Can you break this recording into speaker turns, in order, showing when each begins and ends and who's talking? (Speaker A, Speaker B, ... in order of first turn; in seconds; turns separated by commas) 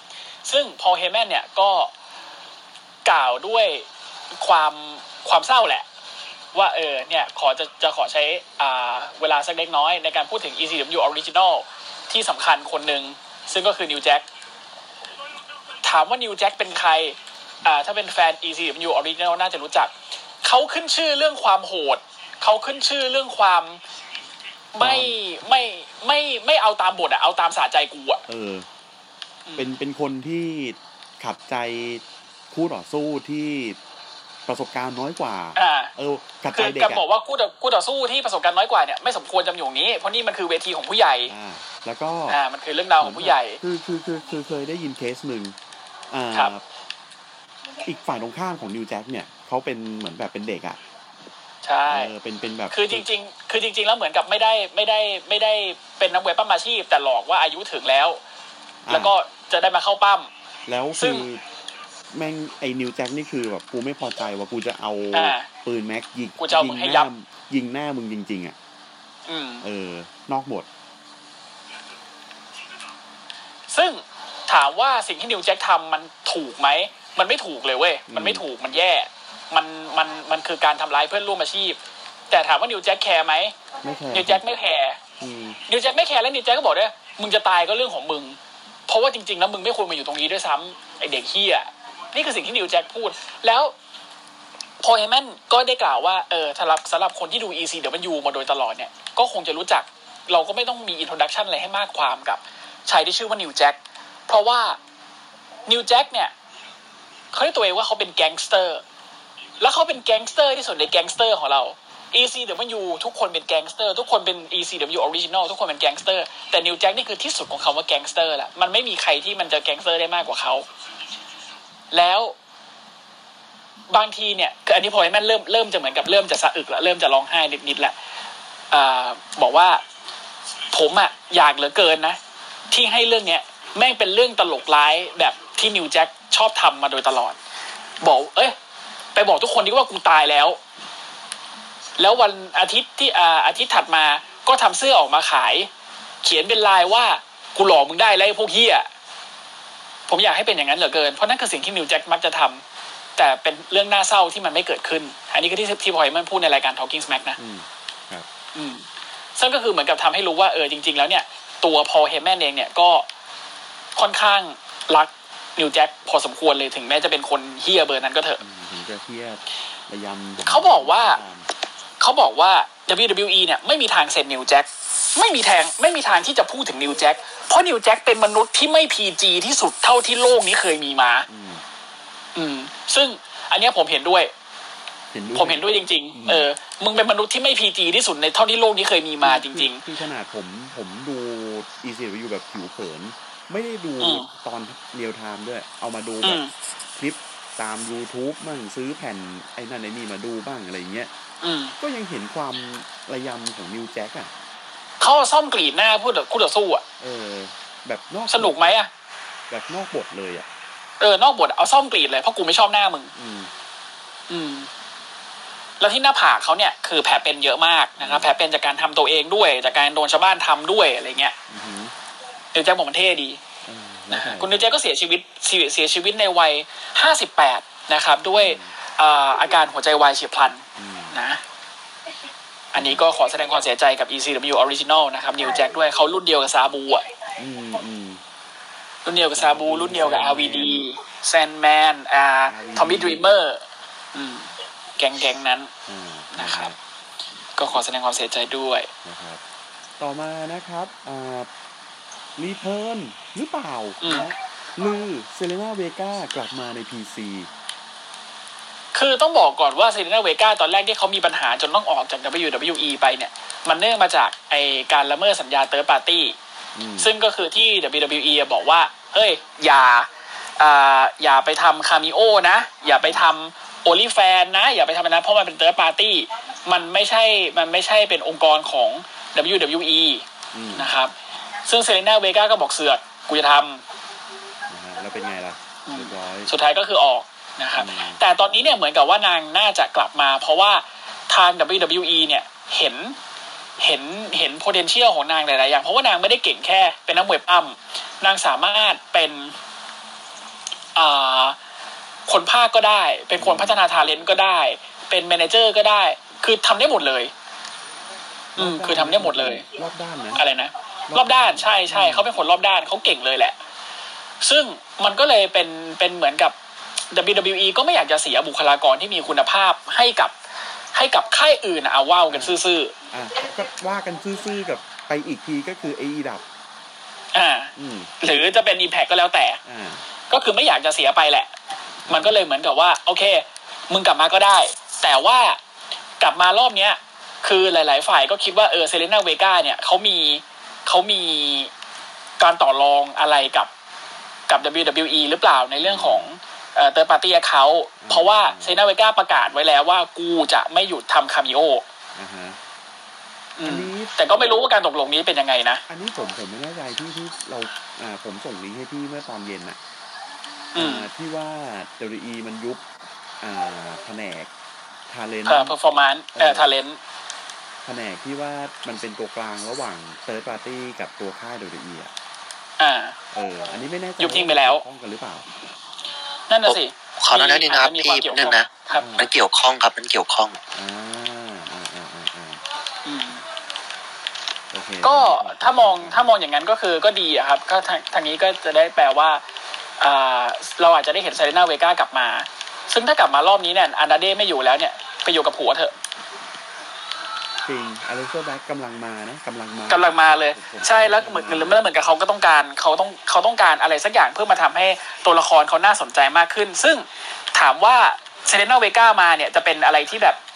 Speaker A: 0.5-1.9, Speaker A: 3.0-3.9, Speaker A: 4.4-5.8, Speaker A: 6.5-14.3, Speaker A: 15.8-19.9, Speaker A: 20.4-23.8, Speaker A: 24.7-28.2, Speaker B: 24.8-25.1, Speaker B: 28.3-28.7, Speaker A: 29.4-29.8, Speaker B: 29.6-33.8, Speaker B: 34.5-37.0, Speaker A: 35.5-35.9, Speaker A: 36.5-41.3, Speaker B: 41.3-42.4, Speaker A: 42.3-43.6, Speaker B: 43.0-45.5, Speaker B: 46.1-46.6, Speaker B: 47.8-50.8, Speaker A: 51.6-52.1, Speaker B: 51.9-53.0, Speaker A: 52.7-58.2, Speaker B: 58.8-59.1, Speaker A: 58.9-60.3, Speaker B: 60.7-61.4, Speaker A: 61.0-61.3, Speaker B: 62.1-68.5, Speaker A: 65.1-65.5, Speaker A: 66.4-67.1, Speaker A: 69.3-69.6, Speaker B: 69.6-70.7, Speaker A: 73.7-81.8, Speaker B: 78.1-78.4, Speaker A: 82.3-83.5, Speaker B: 83.8-84.4, Speaker A: 84.1-85.0, Speaker B: 85.2-85.6, Speaker A: 85.7-93.7, Speaker A: 94.8-104.8, Speaker A: 105.7-106.3, Speaker A: 107.3-108.8, Speaker A: 109.6-120.7, Speaker A: 121.9-122.3, Speaker A: 123.9-127.9, Speaker A: 128.7-129.8, Speaker A: 130.7-132.2, Speaker A: 132.7-137.4, Speaker A: 138.0-138.6, Speaker A: 139.1-140.6, Speaker A: 142.0-145.7, Speaker A: 146.2-148.9, Speaker A: 150.1-152.6, Speaker A: 153.2-157.4, Speaker B: 157.4-158.3, Speaker A: 158.5-158.8, Speaker A: 159.3-163.1, Speaker A: 163.9-168.4, Speaker B: 168.4-171.4, Speaker A: 170.4-171.2, Speaker A: 172.0-181.3, Speaker B: 181.3-181.6, Speaker A: 182.3-184.3, Speaker B: 185.1-186.5, Speaker A: 185.3-189.8, Speaker B: 189.2-196.4, Speaker A: 194.0-194.3, Speaker A: 196.2-196.5, Speaker B: 196.9-201.1, Speaker A: 201.4-201.8, Speaker B: 201.8-204.3, Speaker A: 205.0-206.8, Speaker B: 207.0-208.7, Speaker A: 208.3-208.9, Speaker B: 209.5-210.5, Speaker A: 211.0-213.1, Speaker B: 213.1-213.5, Speaker A: 214.3-214.7, Speaker A: 215.8-221.3, Speaker B: 218.0-218.3, Speaker B: 221.5-221.9, Speaker A: 222.5-223.4, Speaker B: 223.6-224.7, Speaker A: 224.1-231.4, Speaker B: 228.3-228.7, Speaker B: 230.8-231.1, Speaker A: 232.7-237.1, Speaker B: 232.7-233.1, Speaker B: 237.4-238.2, Speaker A: 239.1-243.6, Speaker B: 239.3-240.9, Speaker B: 242.4-243.2, Speaker A: 244.1-245.7, Speaker B: 245.8-246.8, Speaker A: 246.3-246.7, Speaker A: 247.6-248.9, Speaker B: 249.0-249.4, Speaker B: 250.0-251.5, Speaker B: 252.4-257.5, Speaker A: 254.0-254.3, Speaker A: 258.9-266.4, Speaker B: 266.7-267.1, Speaker A: 267.0-281.1, Speaker B: 272.9-273.3, Speaker B: 280.5-280.9, Speaker A: 281.6-283.8, Speaker B: 284.7-286.5, Speaker A: 285.9-293.1, Speaker B: 287.8-288.2, Speaker A: 293.8-299.5, Speaker A: 300.9-301.6, Speaker A: 302.3-307.3, Speaker B: 303.4-303.8, Speaker B: 308.6-310.4, Speaker A: 308.6-309.6, Speaker A: 310.3-313.6, Speaker B: 311.1-312.3, Speaker A: 314.4-316.5, Speaker A: 317.1-320.3, Speaker A: 320.9-322.9, Speaker B: 322.3-326.4, Speaker A: 327.3-329.6, Speaker B: 327.8-328.1, Speaker B: 329.6-330.0, Speaker A: 330.3-331.5, Speaker B: 332.1-332.5, Speaker A: 332.1-335.6, Speaker A: 336.2-341.7, Speaker A: 342.4-343.7, Speaker A: 344.5-351.8, Speaker B: 345.8-346.3, Speaker B: 348.0-348.8, Speaker B: 352.1-352.6, Speaker A: 353.6-355.8, Speaker B: 353.6-354.1, Speaker B: 355.9-359.8, Speaker A: 360.7-361.1, Speaker B: 360.7-362.8, Speaker B: 363.4-364.5, Speaker B: 365.1-365.8, Speaker A: 365.4-367.0, Speaker B: 366.3-366.8, Speaker B: 367.8-372.1, Speaker A: 372.8-373.2, Speaker B: 373.3-375.4, Speaker A: 374.2-374.8, Speaker A: 376.5-379.1, Speaker C: 376.6-380.6, Speaker B: 379.0-379.3, Speaker B: 380.7-382.6, Speaker A: 383.0-383.4, Speaker B: 384.7-386.3, Speaker A: 385.0-389.4, Speaker A: 390.0-395.9, Speaker B: 397.6-401.8, Speaker A: 399.9-410.4